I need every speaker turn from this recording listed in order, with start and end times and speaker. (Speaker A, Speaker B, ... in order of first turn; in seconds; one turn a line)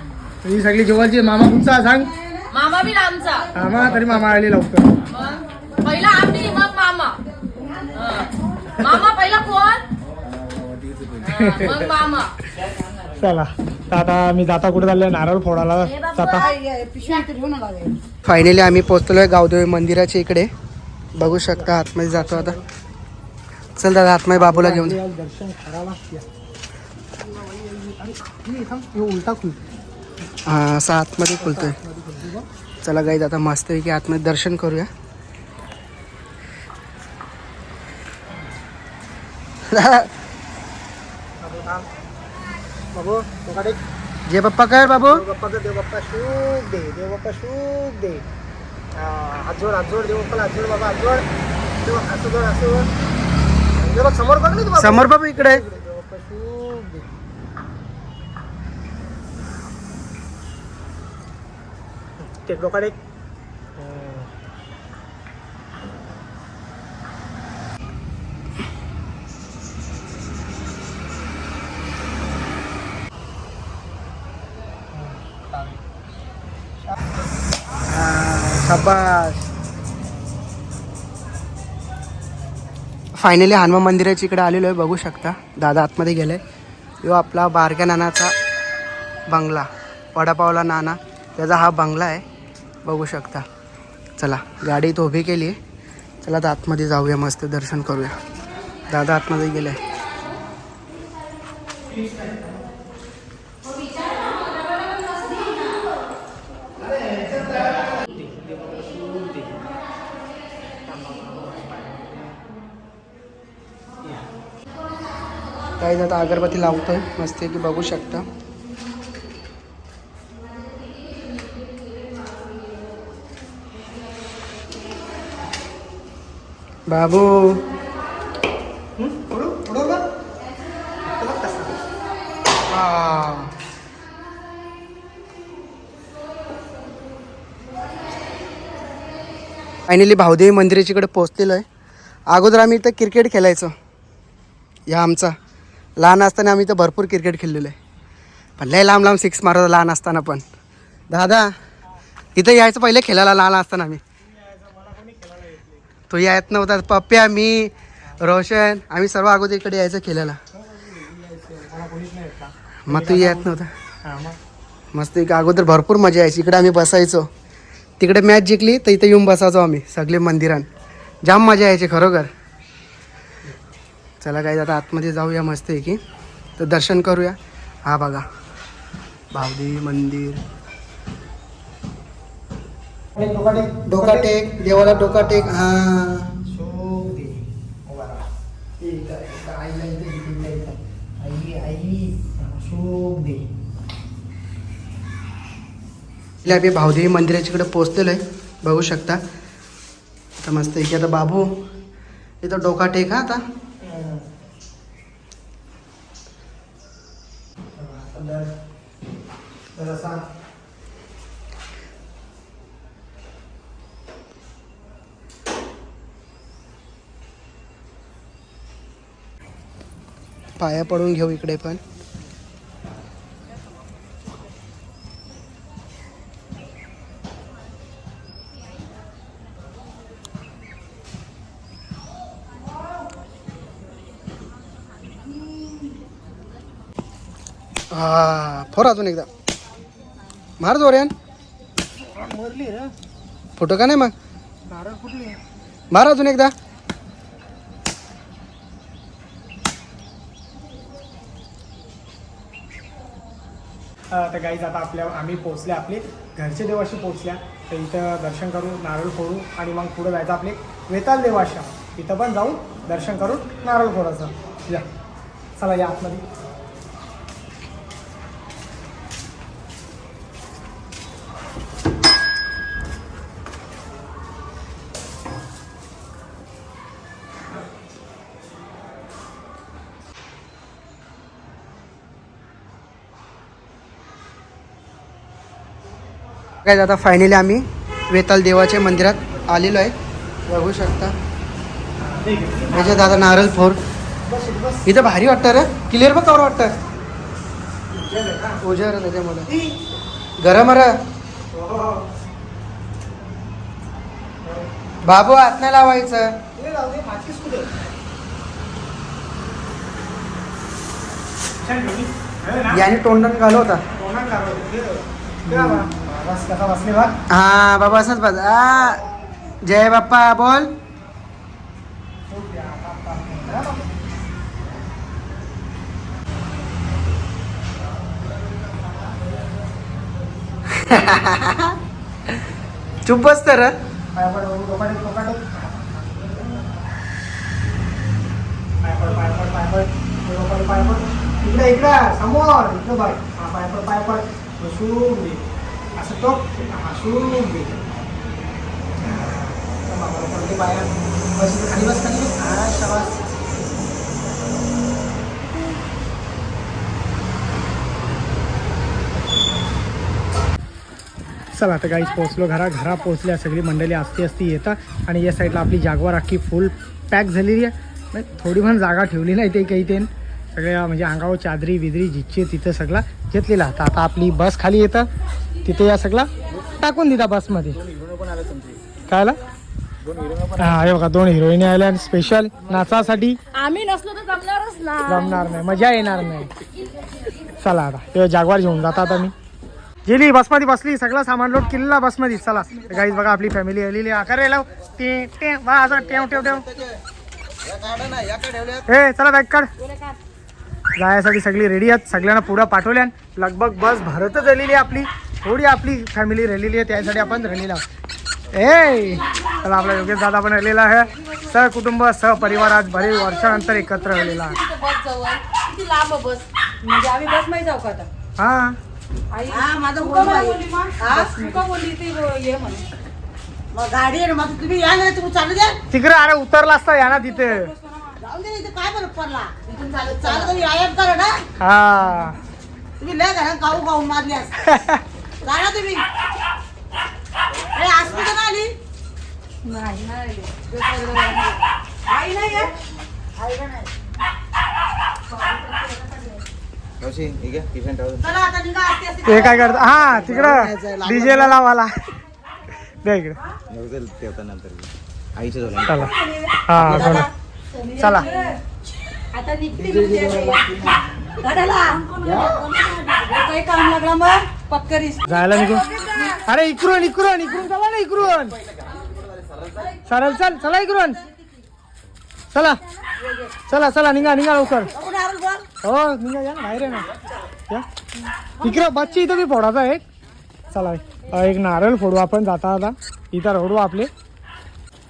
Speaker A: 0.4-2.1
Speaker B: 2.5-3.5
Speaker A: 3.5-4.9
Speaker B: 5.1-7.2
Speaker B: 7.9-9.8
Speaker B: 11.2-12.3
Speaker A: 11.3-11.8
Speaker A: 13.2-16.5
Speaker B: 16.1-16.5
Speaker C: 16.3-17.9
Speaker D: 18.2-20.5
Speaker D: 21.2-22.6
Speaker A: 22.3-22.6
Speaker D: 23.8-25.0
Speaker A: 24.3-26.2
Speaker A: 27.4-29.6
Speaker D: 30.4-31.8
Speaker A: 31.4-32.5
Speaker D: 32.8-34.9
Speaker D: 39.7-40.1
Speaker A: 41.4-41.9
Speaker A: 42.9-43.8
Speaker D: 44.3-45.2
Speaker A: 44.9-48.2
Speaker A: 49.0-51.2
Speaker A: 51.8-52.9
Speaker A: 53.8-57.1
Speaker D: 54.8-55.6
Speaker A: 62.3-62.9
Speaker A: 63.8-64.3
Speaker A: 74.9-75.8
Speaker A: 77.9-79.4
Speaker D: 83.2-86.4
Speaker D: 87.0-88.3
Speaker D: 89.3-92.2
Speaker D: 92.8-93.4
Speaker D: 94.2-95.6
Speaker D: 96.2-98.2
Speaker D: 98.9-99.8
Speaker A: 108.2-109.4
Speaker A: 110.9-112.0
Speaker D: 115.8-118.2
Speaker D: 126.9-127.6
Speaker A: 129.0-130.0
Speaker A: 131.1-131.8
Speaker D: 132.7-133.5
Speaker D: 139.9-141.6
Speaker D: 142.3-143.7
Speaker D: 144.9-145.3
Speaker D: 146.0-147.8
Speaker D: 148.6-150.4
Speaker D: 151.1-151.5
Speaker D: 152.3-154.0
Speaker A: 154.2-155.8
Speaker D: 156.1-160.4
Speaker A: 160.5-163.4
Speaker D: 162.9-163.7
Speaker A: 164.0-164.4
Speaker D: 164.9-167.3
Speaker D: 168.0-170.7
Speaker D: 171.2-172.3
Speaker D: 174.2-176.0
Speaker D: 176.6-178.2
Speaker D: 179.3-180.4
Speaker A: 183.1-185.6
Speaker D: 183.9-186.3
Speaker A: 186.5-188.2
Speaker A: 188.8-193.4
Speaker D: 196.4-199.2
Speaker D: 200.4-201.5
Speaker D: 202.4-203.4
Speaker A: 203.8-204.2
Speaker A: 207.8-208.5
Speaker A: 209.7-210.2
Speaker D: 220.6-221.8
Speaker D: 237.9-239.3
Speaker D: 240.6-241.1
Speaker A: 242.0-242.9
Speaker D: 243.6-244.1
Speaker A: 244.7-245.4
Speaker D: 245.9-246.5
Speaker A: 254.1-264.8
Speaker A: 265.6-266.2
Speaker D: 286.6-289.9
Speaker D: 290.5-291.1
Speaker A: 292.0-293.1
Speaker D: 292.7-293.8
Speaker A: 294.2-294.8
Speaker D: 294.8-296.7
Speaker A: 297.9-298.6
Speaker D: 298.6-299.5
Speaker A: 299.5-299.7
Speaker D: 300.4-301.0
Speaker A: 301.5-302.0
Speaker D: 305.0-306.3
Speaker A: 306.6-307.7
Speaker A: 311.6-312.8
Speaker D: 312.7-313.8
Speaker A: 313.9-317.1
Speaker D: 317.3-319.0
Speaker D: 319.6-320.7
Speaker A: 322.3-323.9
Speaker D: 330.9-331.7
Speaker D: 333.1-333.7
Speaker A: 334.1-336.5
Speaker A: 338.8-345.4
Speaker A: 346.0-347.8
Speaker A: 349.0-353.2
Speaker A: 361.5-375.1
Speaker A: 375.6-376.3
Speaker A: 376.8-377.8
Speaker A: 379.1-379.4
Speaker A: 380.6-383.4
Speaker B: 383.5-385.4
Speaker A: 385.1-386.5
Speaker A: 387.6-389.3
Speaker A: 390.1-396.6
Speaker E: 396.7-396.9
Speaker E: 397.6-398.8
Speaker A: 398.9-399.7
Speaker F: 399.8-400.1
Speaker A: 401.0-407.8
Speaker A: 408.5-414.6
Speaker B: 413.4-416.5
Speaker F: 416.8-418.1
Speaker A: 418.4-418.8
Speaker F: 419.3-422.8
Speaker C: 419.5-421.5
Speaker C: 423.7-425.8
Speaker A: 425.9-427.7
Speaker F: 427.4-428.1
Speaker C: 428.2-431.4
Speaker A: 431.6-432.4
Speaker C: 433.0-434.6
Speaker A: 434.6-435.0
Speaker C: 435.4-436.0
Speaker C: 437.7-438.7
Speaker F: 439.6-441.6
Speaker C: 442.1-442.7
Speaker C: 443.4-443.9
Speaker E: 447.0-448.3
Speaker C: 448.2-451.6
Speaker A: 449.2-451.9
Speaker A: 453.0-453.4
Speaker E: 453.7-456.1
Speaker A: 455.9-456.1
Speaker F: 455.9-458.6
Speaker A: 456.6-457.3
Speaker C: 456.8-457.2
Speaker A: 458.0-458.3
Speaker F: 459.3-460.9
Speaker F: 461.4-462.0
Speaker C: 462.1-463.1
Speaker F: 463.1-466.4
Speaker A: 465.2-465.9
Speaker A: 466.4-468.6
Speaker E: 469.1-469.9
Speaker A: 470.1-471.2
Speaker A: 472.5-472.8
Speaker A: 473.7-474.9
Speaker C: 474.9-475.6
Speaker A: 475.8-477.1
Speaker A: 478.6-480.0
Speaker A: 480.7-484.1